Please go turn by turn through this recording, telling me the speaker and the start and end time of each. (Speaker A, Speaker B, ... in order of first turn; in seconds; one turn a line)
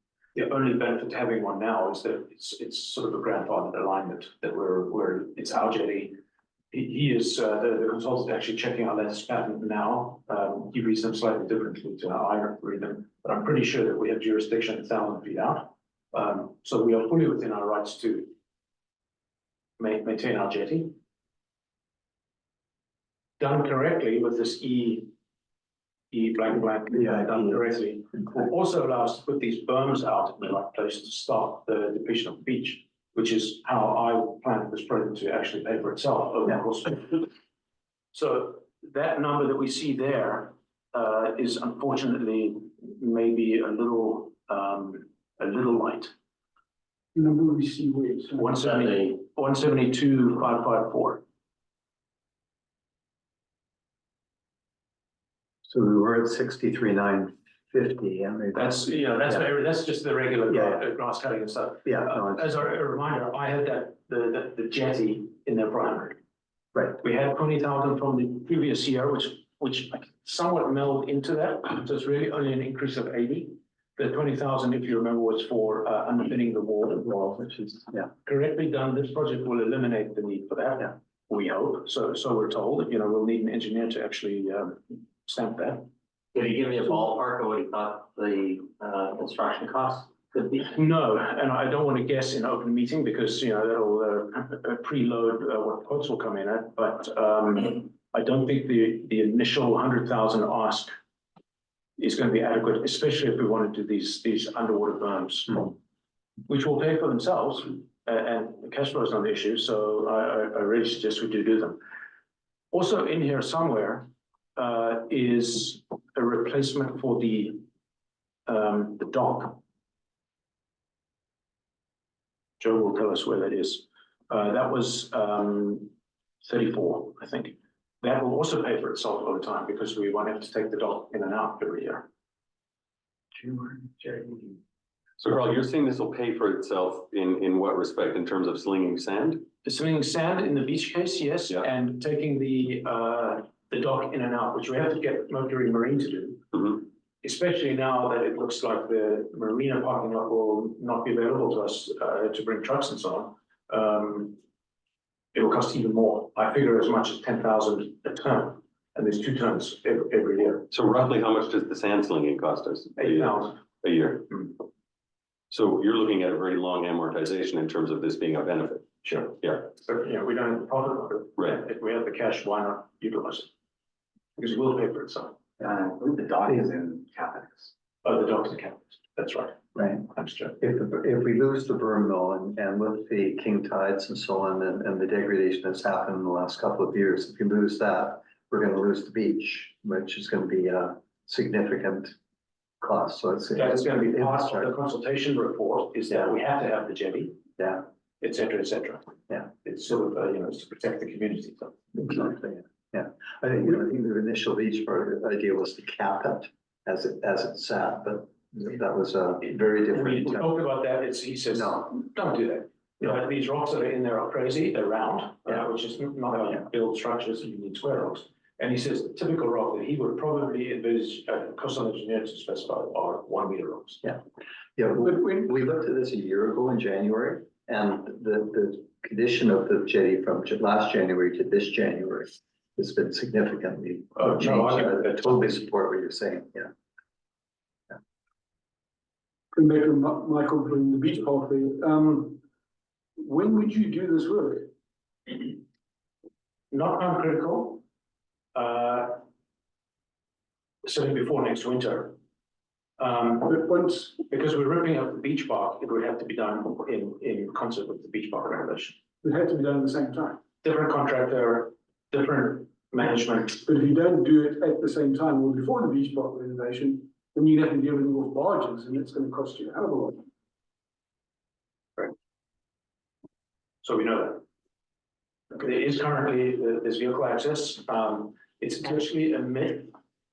Speaker A: 0.3-6.2
Speaker A: 6.7-18.3
Speaker A: 19.8-20.9
Speaker A: 23.4-25.1
Speaker A: 26.1-37.2
Speaker A: 38.1-46.1
Speaker B: 47.1-48.7
Speaker A: 48.4-51.2
Speaker C: 55.6-58.8
Speaker A: 58.5-66.2
Speaker C: 60.5-60.8
Speaker C: 61.8-62.5
Speaker A: 67.0-77.1
Speaker C: 77.0-78.1
Speaker A: 78.2-85.9
Speaker D: 86.3-90.7
Speaker A: 90.7-100.9
Speaker A: 102.0-105.7
Speaker A: 106.5-111.8
Speaker A: 112.7-117.6
Speaker A: 118.5-119.6
Speaker A: 122.6-125.9
Speaker A: 126.4-132.1
Speaker D: 133.4-134.5
Speaker E: 135.2-139.4
Speaker A: 139.6-154.4
Speaker A: 155.3-160.7
Speaker E: 160.7-164.5
Speaker A: 163.0-163.7
Speaker E: 165.5-168.9
Speaker A: 169.0-173.5
Speaker A: 174.4-175.4
Speaker D: 175.6-177.7
Speaker A: 178.0-179.6
Speaker C: 179.7-192.1
Speaker A: 180.1-180.6
Speaker C: 192.8-194.7
Speaker A: 193.5-197.4
Speaker A: 198.2-202.2
Speaker C: 202.0-210.5
Speaker A: 209.9-224.1
Speaker C: 211.5-211.9
Speaker C: 224.8-236.7
Speaker A: 234.2-235.4
Speaker B: 239.5-242.4
Speaker B: 243.2-244.7
Speaker A: 246.7-247.8
Speaker A: 248.5-249.2
Speaker A: 250.8-252.2
Speaker A: 253.0-259.0
Speaker B: 253.4-254.1
Speaker B: 259.2-260.4
Speaker A: 260.6-263.6
Speaker B: 263.6-270.2
Speaker A: 273.8-274.4
Speaker A: 275.5-279.9